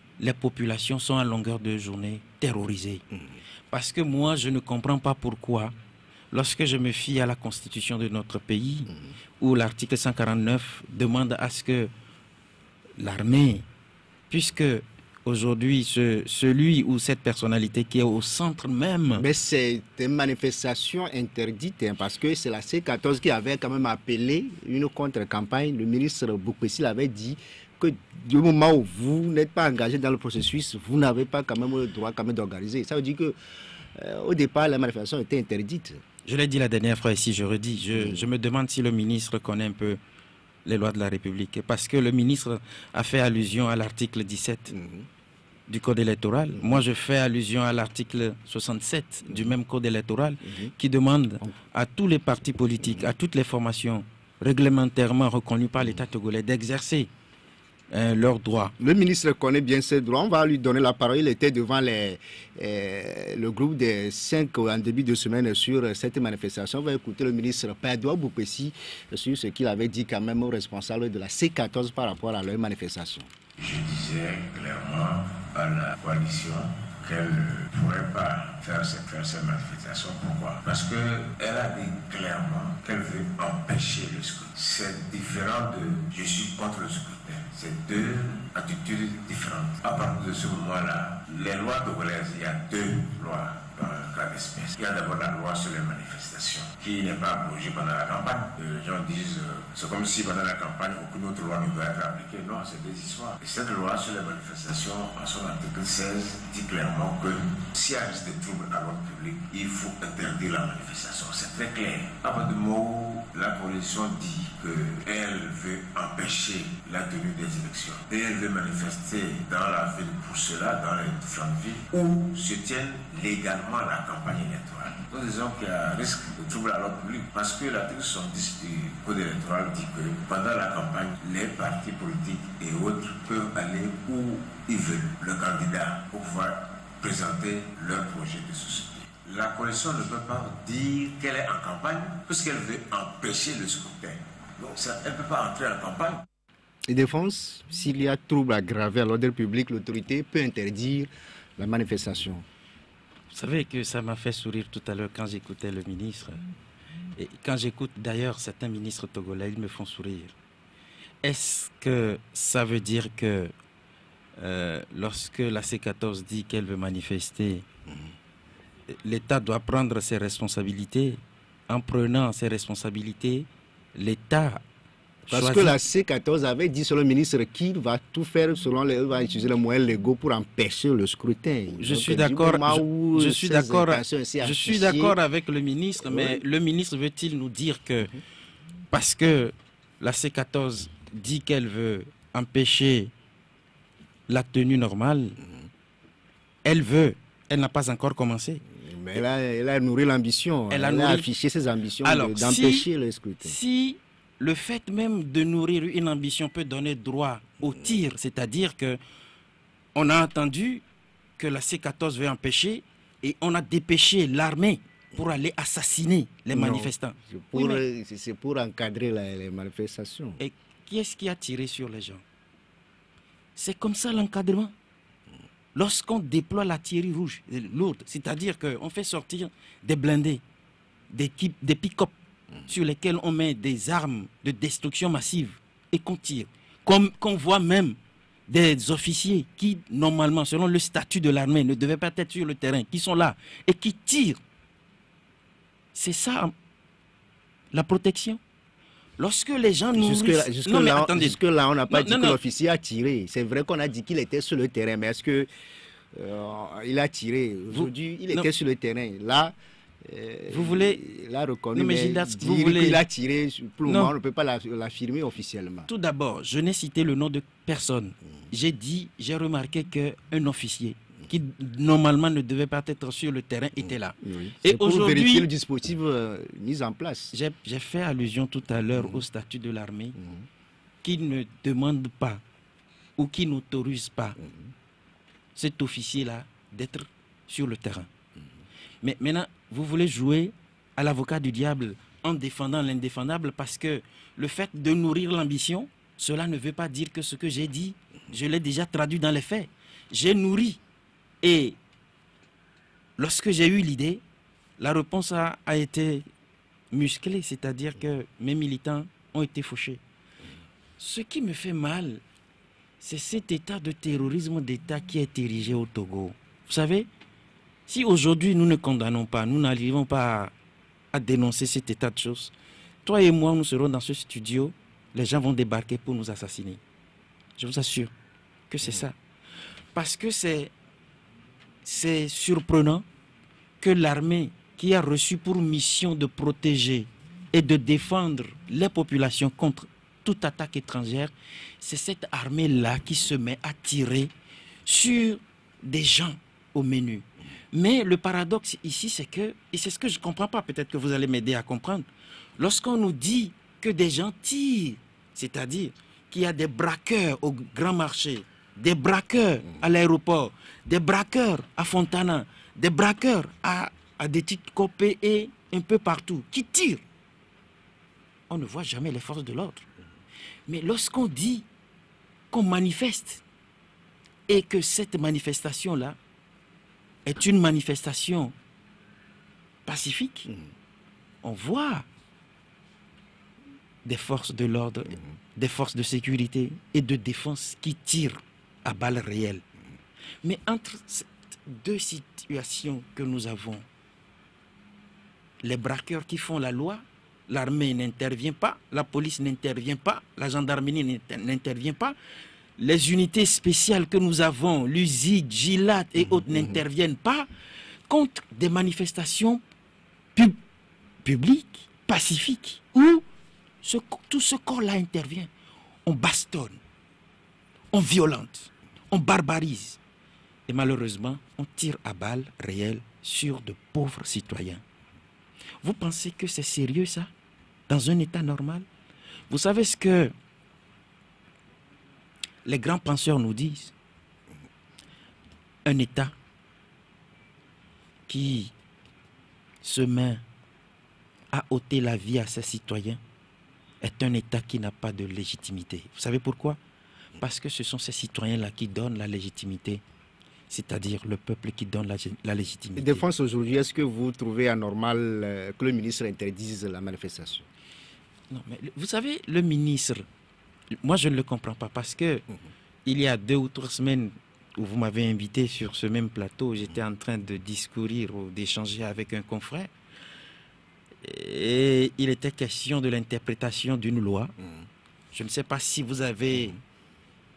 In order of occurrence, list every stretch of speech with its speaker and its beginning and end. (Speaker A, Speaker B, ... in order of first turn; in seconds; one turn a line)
Speaker A: 0.2-3.0
Speaker A: 3.7-5.7
Speaker A: 6.3-11.9
Speaker A: 13.0-13.6
Speaker A: 14.3-19.2
Speaker B: 19.1-33.3
Speaker B: 34.0-36.0
Speaker A: 36.2-40.0
Speaker B: 37.9-38.2
Speaker A: 40.6-44.7
Speaker B: 44.7-45.1
Speaker A: 45.7-57.1
Speaker B: 50.5-50.7
Speaker A: 57.9-58.7
Speaker B: 58.8-73.3
Speaker C: 73.6-146.2
Speaker B: 146.9-152.4
Speaker A: 153.3-156.4
Speaker A: 157.2-160.3
Speaker A: 161.2-163.5
Speaker A: 164.4-167.6
Speaker A: 168.9-174.6
Speaker A: 175.3-175.8
Speaker B: 175.3-185.2
Speaker A: 181.8-188.2
Speaker A: 188.9-193.1
Speaker A: 194.3-195.4
Speaker A: 196.6-198.6
Speaker B: 198.8-203.5
Speaker A: 200.7-201.3
Speaker A: 202.0-202.9
Speaker A: 203.4-209.0
Speaker A: 209.9-210.8
Speaker A: 211.4-217.8
Speaker B: 216.5-220.4
Speaker A: 220.4-222.2
Speaker A: 223.6-224.7
Speaker A: 225.7-230.4
Speaker A: 231.1-232.1
Speaker A: 232.7-244.4
Speaker A: 245.9-246.5
Speaker A: 247.7-248.4
Speaker A: 249.2-252.4
Speaker B: 249.9-255.5
Speaker B: 256.1-265.9
Speaker A: 257.7-258.5
Speaker A: 260.5-261.0
Speaker A: 261.7-263.0
Speaker A: 263.8-264.1
Speaker A: 265.9-275.5
Speaker B: 274.2-277.3
Speaker A: 277.3-280.2
Speaker A: 281.0-282.4
Speaker A: 283.2-284.4
Speaker A: 285.5-288.1
Speaker A: 289.0-300.8
Speaker A: 301.4-301.8
Speaker A: 303.2-304.2
Speaker A: 304.8-306.2
Speaker A: 306.9-310.0
Speaker A: 311.0-312.2
Speaker A: 313.0-317.1
Speaker A: 317.9-320.5
Speaker A: 321.1-322.5
Speaker A: 323.0-326.8
Speaker A: 327.6-328.1
Speaker A: 328.7-329.2
Speaker A: 329.9-330.7
Speaker A: 331.8-333.1
Speaker A: 333.8-344.3
Speaker A: 344.8-352.1
Speaker A: 352.6-367.0
Speaker A: 368.5-369.9
Speaker A: 370.7-371.6
Speaker A: 372.5-373.4
Speaker A: 374.5-376.2
Speaker A: 377.2-378.5
Speaker A: 379.9-380.5
Speaker A: 381.4-382.1
Speaker A: 384.0-389.6
Speaker A: 390.4-393.8
Speaker A: 395.6-402.1
Speaker A: 402.8-407.5
Speaker B: 406.4-406.8
Speaker A: 408.1-409.6
Speaker A: 411.2-413.2
Speaker A: 413.8-415.5
Speaker A: 416.0-416.8
Speaker A: 417.9-420.0
Speaker A: 420.7-424.8
Speaker A: 425.8-427.3
Speaker A: 427.9-428.9
Speaker A: 429.5-430.3
Speaker A: 432.6-433.9
Speaker A: 435.8-436.4
Speaker A: 438.3-438.7
Speaker A: 439.8-440.4
Speaker A: 441.5-443.2
Speaker A: 444.0-446.8
Speaker A: 447.4-450.0
Speaker A: 450.7-453.2
Speaker B: 452.9-457.7
Speaker A: 458.5-460.3
Speaker A: 461.0-462.4
Speaker A: 463.0-469.9
Speaker A: 471.2-474.5
Speaker A: 475.3-476.8